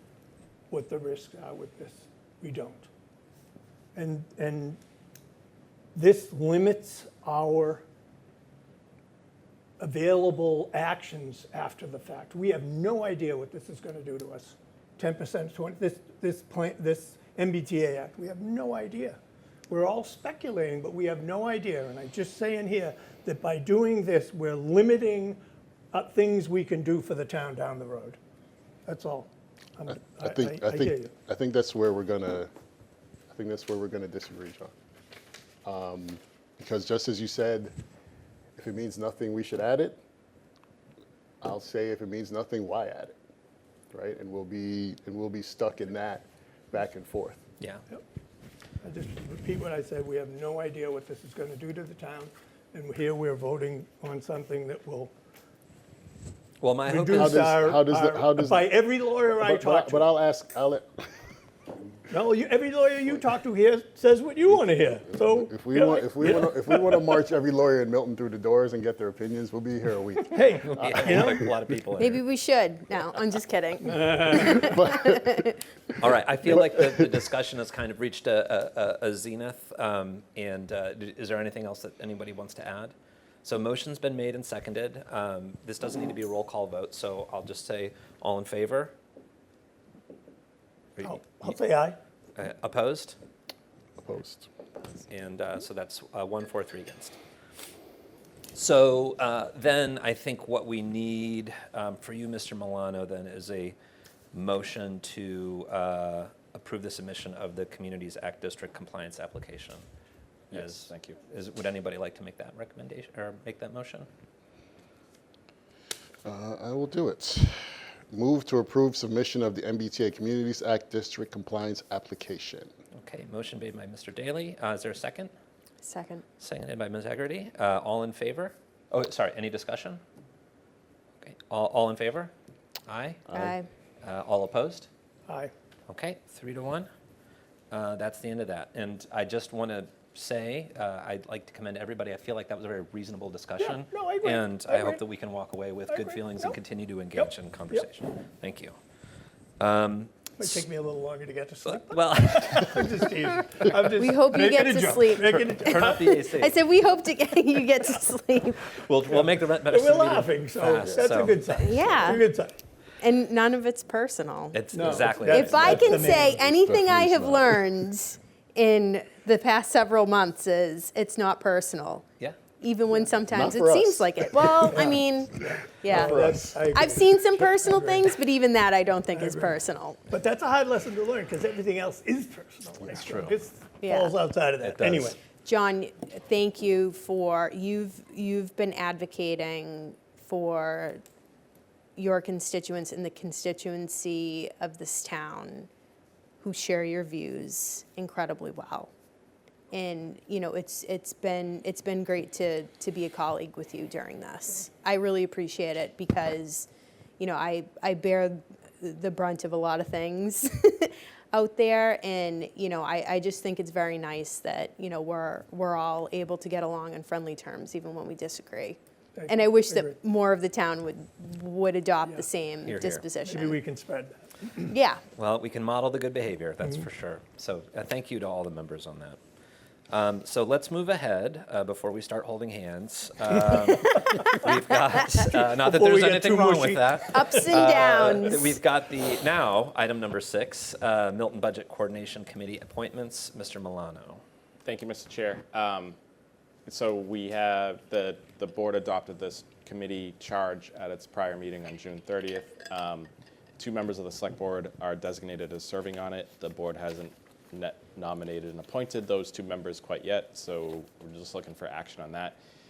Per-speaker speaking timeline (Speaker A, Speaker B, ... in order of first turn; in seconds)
Speaker A: 0.7-2.9, 3.9-4.8, 5.9-7.8, 9.8-19.2, 19.7-25.4, 25.9-28.2, 28.9-31.1, 48.8-55.1, 56.9-60.0, 62.1-67.0, 70.2-71.4, 73.8-74.5, 91.0-92.0, 135.3-135.5, 143.6-145.0, 145.9-146.6, 147.1-147.9, 150.4-156.2, 159.0-162.5, 164.7-166.5, 174.7-178.1, 179.1-179.6, 180.1-185.2, 219.2-220.0, 223.2-224.7, 235.2-237.4
Speaker B: 30.2-32.5, 33.3-34.7, 35.6-37.7, 38.6-40.0, 41.4-43.1, 43.9-47.4, 57.1-58.6, 59.3-61.0, 65.1-71.5, 74.4-75.5, 94.0-94.5, 116.2-122.7, 166.4-167.6, 173.3-175.0, 175.9-176.6
Speaker C: 56.6-57.5, 70.7-72.2, 76.0-88.9, 92.3-93.2, 95.0-97.2, 98.5-103.7, 104.3-109.8, 110.5-114.1, 123.0-125.3, 126.4-130.0, 131.2-132.3, 132.9-133.5, 134.0-134.9, 135.9-136.9, 137.7-148.8, 149.6-150.6, 151.6-152.8, 155.2-156.6, 158.6-161.4, 164.5-165.9, 182.9-183.3, 184.6-185.2, 222.6-223.1, 225.2-229.2, 229.9-244.2
Speaker D: 72.0-75.5, 125.8-126.2, 133.3-133.7, 153.6-155.4, 156.1-158.7, 161.6-162.2, 163.0-172.0, 172.6-180.0, 183.8-184.2, 185.3-191.0, 191.9-195.7, 196.4-198.9, 199.7-206.7, 207.2-223.6, 224.7-225.0, 237.1-238.6
Speaker E: 110.5-111.2, 244.6-245.9, 246.7-262.4